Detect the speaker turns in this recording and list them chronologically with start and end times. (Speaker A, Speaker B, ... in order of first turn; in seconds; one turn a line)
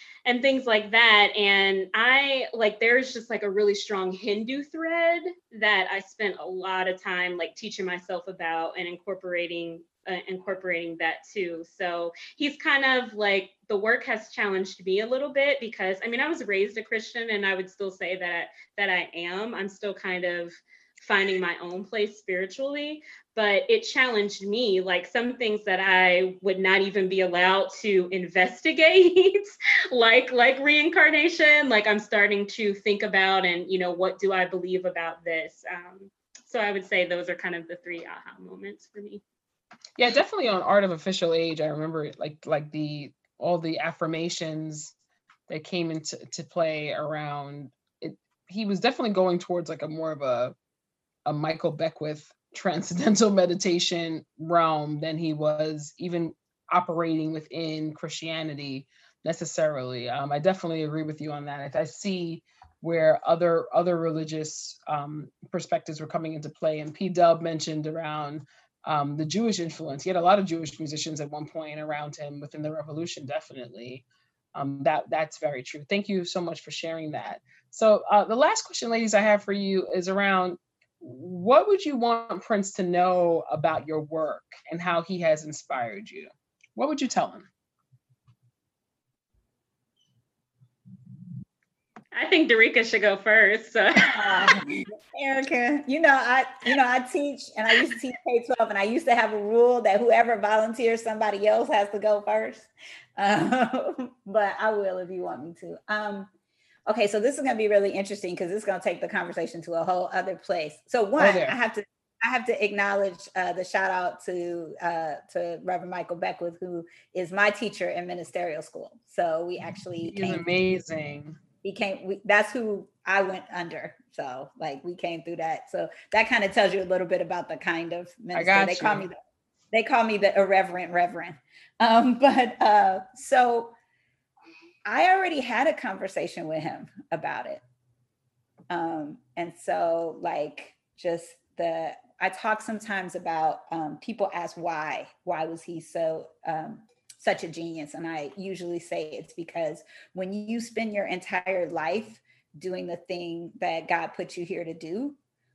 Speaker A: 0.2-39.2
Speaker B: 40.0-44.9
Speaker B: 45.5-50.5
Speaker B: 51.3-74.0
Speaker B: 74.5-87.5
Speaker A: 92.1-94.8
Speaker C: 94.0-106.3
Speaker C: 106.9-120.4
Speaker B: 111.2-111.6
Speaker B: 120.0-121.4
Speaker C: 121.6-129.2
Speaker B: 128.3-129.1
Speaker C: 129.7-133.7
Speaker C: 134.9-137.6
Speaker C: 138.7-155.2